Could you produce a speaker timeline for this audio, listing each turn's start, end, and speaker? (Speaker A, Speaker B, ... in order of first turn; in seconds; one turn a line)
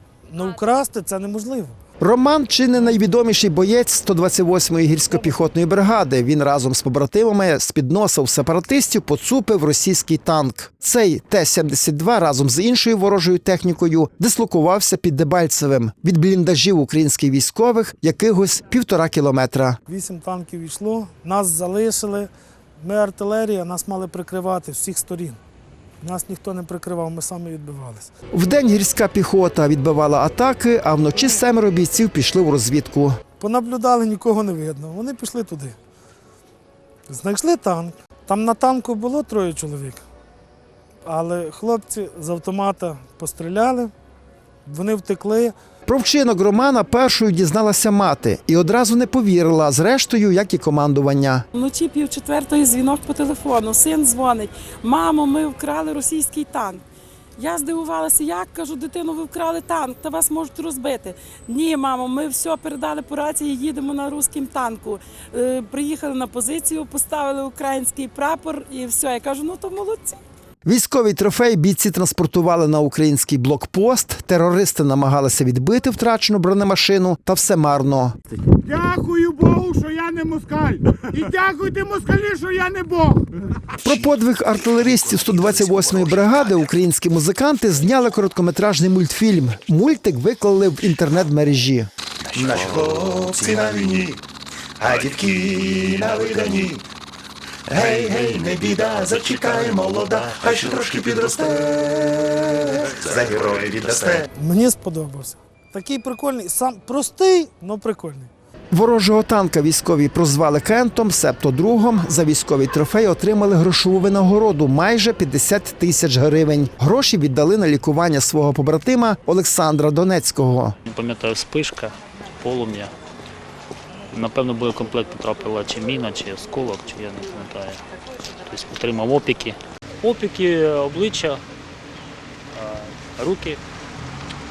Speaker A: 0.3-1.8
Speaker B: 2.0-19.8
Speaker A: 19.9-25.4
Speaker A: 26.0-28.1
Speaker B: 28.3-33.1
Speaker A: 33.4-35.7
Speaker A: 37.1-40.0
Speaker A: 41.0-43.9
Speaker A: 44.6-45.5
Speaker B: 45.9-51.4
Speaker C: 51.6-56.8
Speaker C: 57.4-70.2
Speaker B: 70.6-78.2
Speaker D: 78.5-83.2
Speaker B: 83.8-91.9
Speaker E: 85.1-86.5
Speaker E: 92.3-94.2
Speaker E: 94.8-96.8
Speaker E: 97.7-104.2
Speaker A: 104.3-108.3
Speaker B: 108.7-120.8
Speaker F: 120.8-122.9
Speaker F: 124.1-127.8
Speaker F: 128.4-131.4
Speaker F: 132.5-133.6